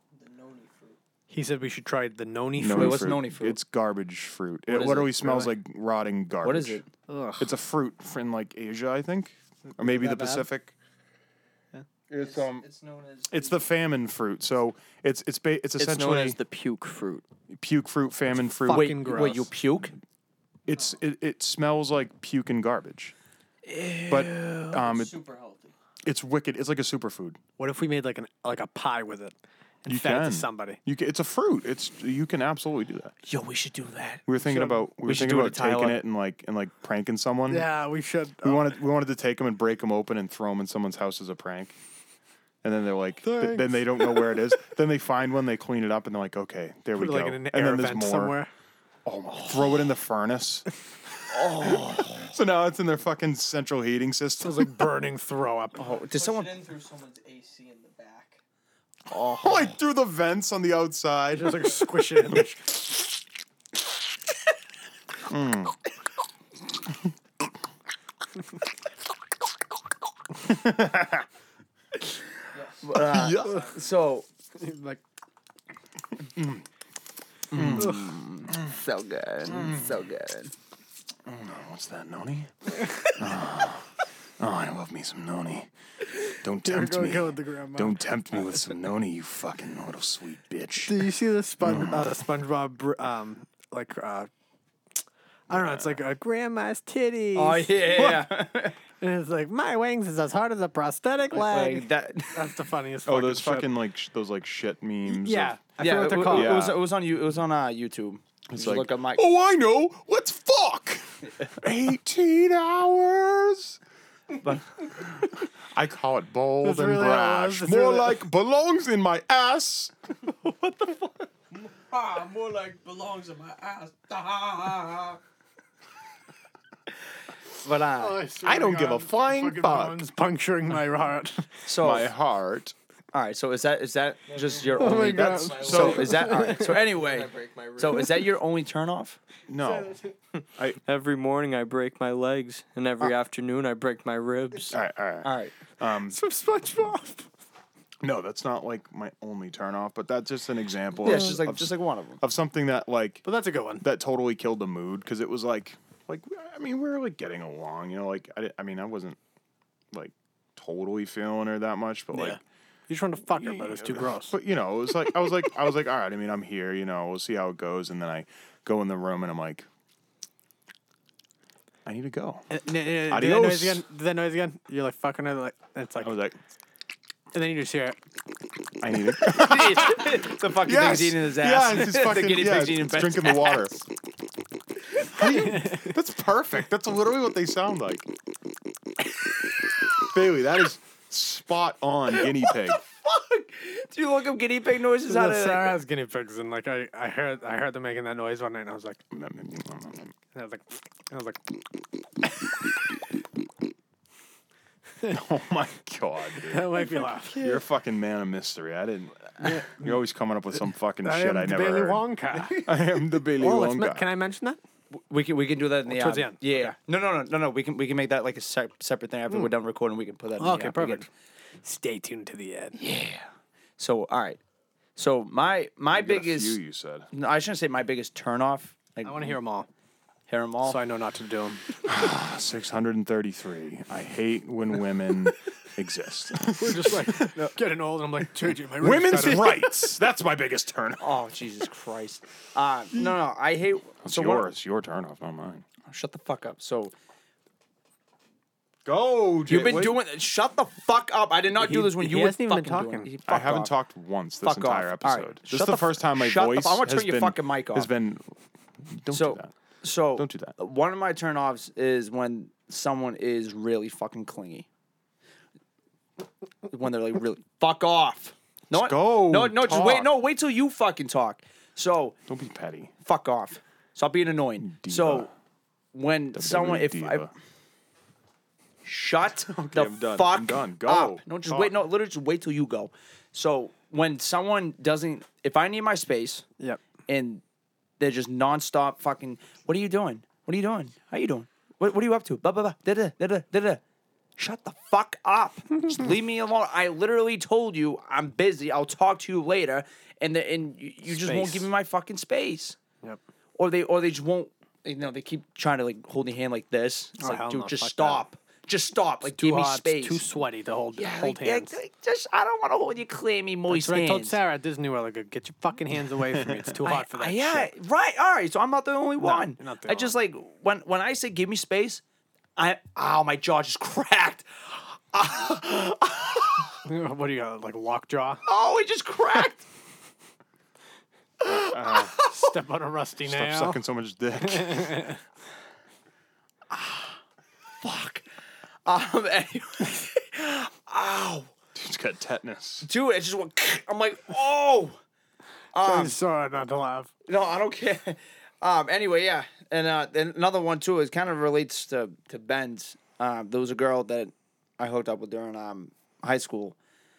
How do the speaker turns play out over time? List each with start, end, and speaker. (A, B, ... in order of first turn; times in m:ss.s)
0:00.1-0:01.0 A
0:01.3-0:03.1 B
0:02.6-0:06.8 C
0:02.7-0:03.6 D
0:04.7-0:05.5 D
0:06.4-0:06.9 D
0:07.1-0:07.5 B
0:07.4-0:10.7 C
0:09.7-0:10.5 B
0:12.1-0:12.6 D
0:12.1-0:13.7 A
0:13.3-0:16.4 C
0:15.8-0:17.2 A
0:17.5-0:19.0 C
0:18.6-0:19.5 B
0:18.7-0:19.9 D
0:20.7-0:23.1 C
0:23.6-0:24.8 D
0:24.1-0:25.1 C
0:24.7-0:25.7 A
0:26.0-0:27.4 C
0:27.6-0:30.8 B
0:29.9-0:33.1 C
0:33.2-0:36.0 D
0:34.3-0:37.7 C
0:37.5-0:38.6 B
0:38.4-0:41.8 C
0:42.6-0:48.4 C
0:43.2-0:44.4 B
0:47.0-0:48.5 B
0:49.0-0:54.9 C
0:51.3-0:52.4 D
0:54.4-0:55.9 B
0:55.8-0:56.6 D
0:55.8-0:58.4 A
0:59.1-0:59.7 D
0:59.4-1:02.4 C
1:01.3-1:02.7 B
1:05.3-1:05.8 C
1:10.4-1:11.2 C
1:12.5-1:13.9 A
1:12.8-1:14.2 D
1:13.0-1:13.6 C
1:14.6-1:15.0 B
1:16.4-1:16.6 C
1:17.5-1:18.8 C
1:17.5-1:20.5 D
1:17.8-1:18.2 B
1:19.5-1:19.9 C
1:21.2-1:25.7 C
1:26.4-1:31.0 C
1:26.6-1:28.0 B
1:30.8-1:34.3 B
1:31.6-1:32.2 C
1:35.5-1:36.0 C
1:35.5-1:38.2 B
1:37.4-1:38.8 D
1:39.0-1:43.7 B
1:41.3-1:42.5 D
1:43.1-1:45.6 C
1:45.1-1:46.6 B
1:45.8-1:49.2 D
1:46.2-1:46.8 C
1:48.5-1:53.8 C
1:54.4-1:54.9 D
1:55.0-1:59.9 C
1:56.6-1:58.2 B
2:01.5-2:05.2 A
2:07.6-2:08.2 D
2:08.0-2:11.6 B
2:08.4-2:10.1 C
2:11.6-2:12.1 D
2:11.8-2:12.7 C
2:13.1-2:19.2 D
2:14.3-2:18.3 A
2:14.8-2:16.7 B
2:15.2-2:16.2 C
2:19.5-2:20.0 C
2:20.9-2:24.7 E
2:24.7-2:26.2 C
2:25.2-2:25.6 D
2:26.1-2:27.3 B
2:28.0-2:33.2 C
2:31.0-2:32.2 D
2:33.2-2:33.8 B
2:33.8-2:39.2 C
2:39.9-2:42.4 C
2:42.1-2:44.4 B
2:43.3-2:49.6 C
2:51.9-2:52.5 C
2:52.5-2:56.1 B
2:53.1-2:53.8 C
2:56.0-2:56.4 C
2:57.3-2:58.0 B
2:58.8-3:03.8 C
2:59.2-3:03.7 D
3:05.0-3:08.1 C
3:05.3-3:05.9 B
3:10.0-3:12.8 C
3:12.2-3:15.8 D
3:15.1-3:19.0 B
3:19.1-3:20.1 C
3:20.3-3:21.6 B
3:25.1-3:34.1 C
3:26.4-3:27.4 B
3:29.4-3:30.0 B
3:31.0-3:32.7 B
3:33.4-3:34.6 B
3:34.9-3:41.0 D
3:35.9-3:36.4 B
3:40.4-3:41.1 B
3:41.6-3:42.8 B
3:42.8-3:44.4 D
3:45.0-3:46.6 D
3:45.9-3:47.1 C
3:47.1-3:49.4 D
3:49.0-3:49.7 B
3:50.3-3:50.8 D
3:50.6-3:51.7 B
3:51.8-3:57.3 C
3:56.5-3:59.7 B
3:58.6-4:01.1 C
4:01.0-4:04.5 D
4:04.0-4:05.6 C
4:05.9-4:06.9 D
4:08.8-4:10.0 C
4:09.5-4:13.7 D
4:11.6-4:13.1 B
4:13.3-4:18.3 C
4:14.4-4:17.9 D
4:18.9-4:19.5 C
4:19.1-4:24.6 D
4:20.2-4:20.6 C
4:26.7-4:32.2 D
4:28.7-4:30.1 C
4:32.3-4:32.9 C
4:33.0-4:35.3 D
4:34.6-4:35.3 C
4:35.9-4:37.3 D
4:36.3-4:37.3 C
4:38.8-4:46.4 D
4:39.5-4:41.7 C
4:47.1-4:47.4 D
4:48.0-4:53.8 D
4:54.4-5:02.8 D
5:01.1-5:01.7 B
5:03.6-5:10.2 D
5:07.2-5:08.2 B
5:09.2-5:11.8 B
5:11.0-5:14.4 D
5:13.7-5:17.7 B
5:16.3-5:16.6 C
5:16.8-5:22.0 D
5:19.2-5:20.1 B
5:22.6-5:26.8 D
5:26.8-5:28.4 B
5:28.4-5:29.6 D
5:31.4-5:32.4 D
5:31.5-5:32.1 C
5:32.2-5:33.8 B
5:33.2-5:35.1 C
5:34.4-5:35.2 B
5:36.7-5:37.1 D
5:37.8-5:38.2 D
5:38.9-5:41.5 D
5:41.7-5:42.9 C
5:42.8-5:45.0 D
5:45.7-5:46.2 D
5:45.8-5:47.1 B
5:47.3-5:56.8 D